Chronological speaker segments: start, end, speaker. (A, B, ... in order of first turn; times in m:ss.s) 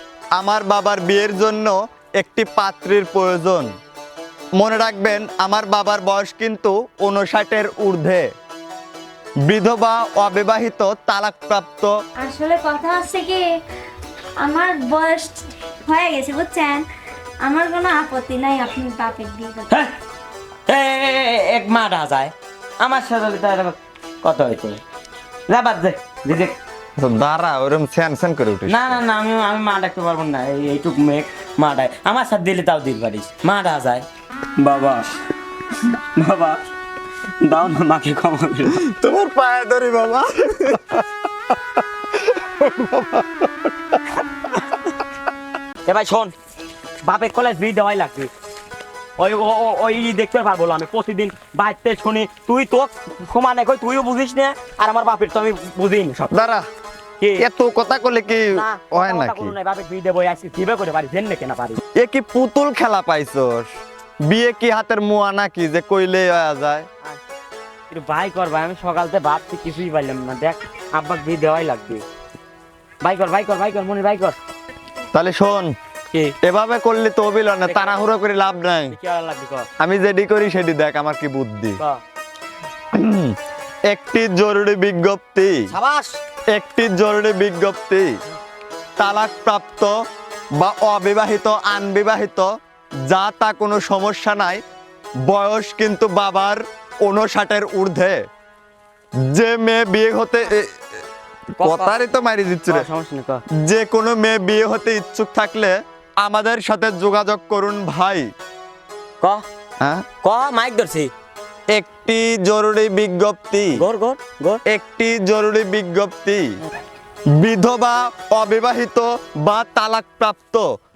0:00.4-0:03.7 A
0:04.6-0:08.2 A
0:09.5-0:11.9 A
0:12.2-0:13.4 B
0:14.4-0:16.8 B
0:17.4-0:19.7 B
0:20.7-0:24.8 C
0:25.5-0:26.5 C
0:27.0-0:29.0 A
0:28.7-0:34.0 C
0:34.6-0:35.0 C
0:36.2-0:36.6 C
0:37.4-0:38.8 C
0:38.8-0:41.0 A
0:42.4-0:43.3 A
0:45.8-0:46.3 C
0:47.0-0:48.3 C
0:49.2-0:56.3 C
0:56.3-0:56.6 A
0:57.4-0:59.6 A
0:58.5-1:01.8 C
1:02.0-1:03.7 A
1:04.3-1:06.9 A
1:07.9-1:12.0 C
1:13.0-1:14.4 C
1:15.1-1:15.7 A
1:16.4-1:18.9 A
1:17.6-1:18.0 C
1:18.9-1:19.7 C
1:19.8-1:21.8 A
1:23.0-1:23.3 A
1:23.9-1:25.6 A
1:25.7-1:26.2 C
1:26.5-1:28.1 A
1:29.0-1:29.9 A
1:30.6-1:32.5 A
1:33.1-1:34.6 A
1:35.3-1:38.2 A
1:39.2-1:40.8 A
1:41.6-1:42.9 A
1:41.6-1:42.0 C
1:42.7-1:43.4 C
1:43.6-1:48.3 A
1:50.2-1:51.1 C
1:51.7-1:53.8 A
1:53.7-1:54.6 C
1:54.7-1:56.4 A
1:57.4-2:00.6 A